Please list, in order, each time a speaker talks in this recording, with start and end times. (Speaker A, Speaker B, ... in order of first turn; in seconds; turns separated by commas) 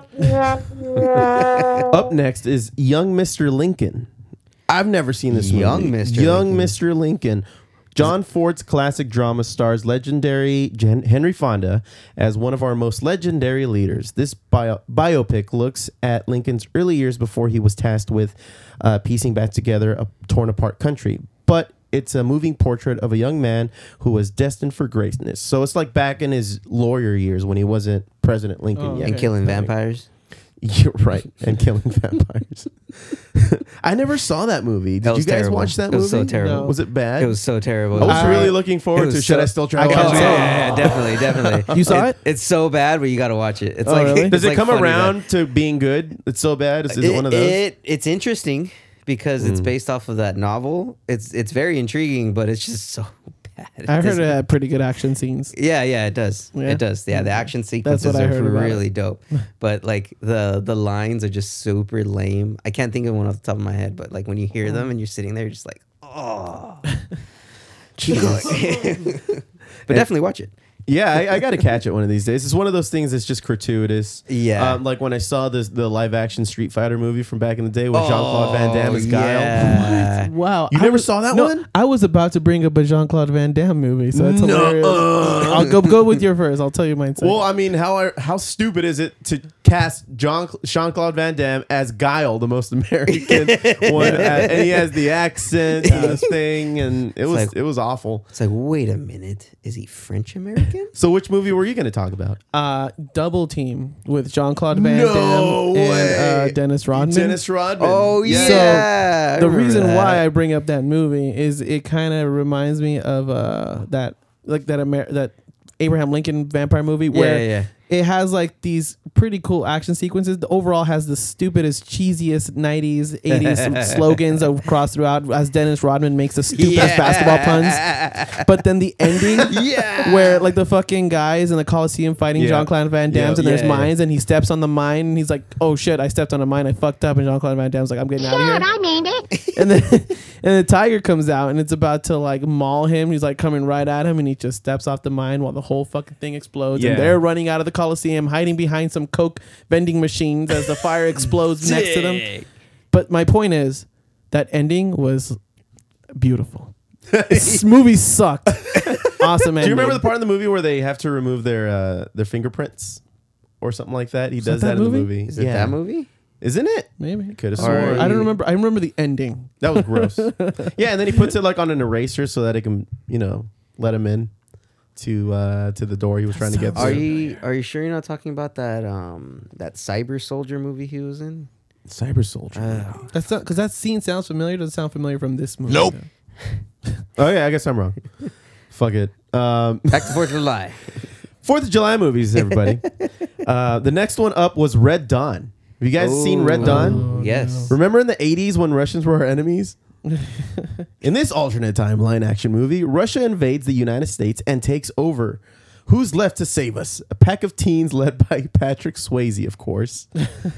Speaker A: 0.9-1.3, Speaker B: 1.4-1.8, Speaker A: 1.8-4.1, Speaker A: 4.7-29.7, Speaker B: 5.3-6.7, Speaker C: 28.7-29.3, Speaker B: 29.0-30.1, Speaker A: 30.6-37.4, Speaker B: 35.0-45.2, Speaker C: 36.4-36.7, Speaker A: 37.9-42.1, Speaker C: 38.0-38.6, Speaker C: 39.8-41.0, Speaker C: 41.7-42.2, Speaker C: 43.8-44.4, Speaker A: 44.2-47.6, Speaker B: 46.9-54.3, Speaker A: 49.4-49.7, Speaker C: 53.9-55.5, Speaker B: 55.5-66.9, Speaker C: 56.5-58.9, Speaker A: 68.0-68.8, Speaker B: 68.0-70.5, Speaker A: 70.9-79.8, Speaker B: 74.3-74.8, Speaker B: 77.9-80.3, Speaker C: 79.6-87.4, Speaker A: 80.7-81.7, Speaker A: 84.1-85.8, Speaker A: 87.2-98.2, Speaker B: 93.1-94.9, Speaker B: 95.8-96.2, Speaker C: 95.9-96.2, Speaker B: 97.3-97.5, Speaker B: 98.3-100.9, Speaker A: 100.9-102.4, Speaker C: 102.5-107.4, Speaker A: 104.7-108.8, Speaker B: 107.8-110.2, Speaker C: 108.2-138.8, Speaker B: 117.1-117.7, Speaker B: 123.3-124.0, Speaker B: 126.5-128.4, Speaker B: 129.4-130.4, Speaker A: 132.3-133.4, Speaker B: 133.4-133.9, Speaker C: 139.5-152.3, Speaker A: 146.7-147.2, Speaker B: 151.6-152.5, Speaker C: 152.9-155.4, Speaker C: 156.1-156.7, Speaker A: 157.1-157.6, Speaker C: 157.3-160.0, Speaker A: 158.5-163.0, Speaker A: 163.6-165.8, Speaker C: 164.4-165.1, Speaker B: 165.3-166.1, Speaker A: 166.4-168.3, Speaker C: 167.0-170.7, Speaker B: 167.6-168.3, Speaker A: 169.6-174.3, Speaker A: 174.9-177.1, Speaker C: 176.3-177.1, Speaker B: 176.7-181.5, Speaker A: 181.9-183.0, Speaker B: 182.5-183.1, Speaker C: 183.1-186.1, Speaker A: 185.7-185.9, Speaker A: 187.2-188.0, Speaker A: 188.7-190.2, Speaker B: 189.9-191.1, Speaker A: 191.4-192.9, Speaker A: 193.4-197.1, Speaker B: 196.0-197.7, Speaker C: 196.6-197.7, Speaker A: 197.7-199.8, Speaker C: 200.2-200.7, Speaker A: 201.0-210.1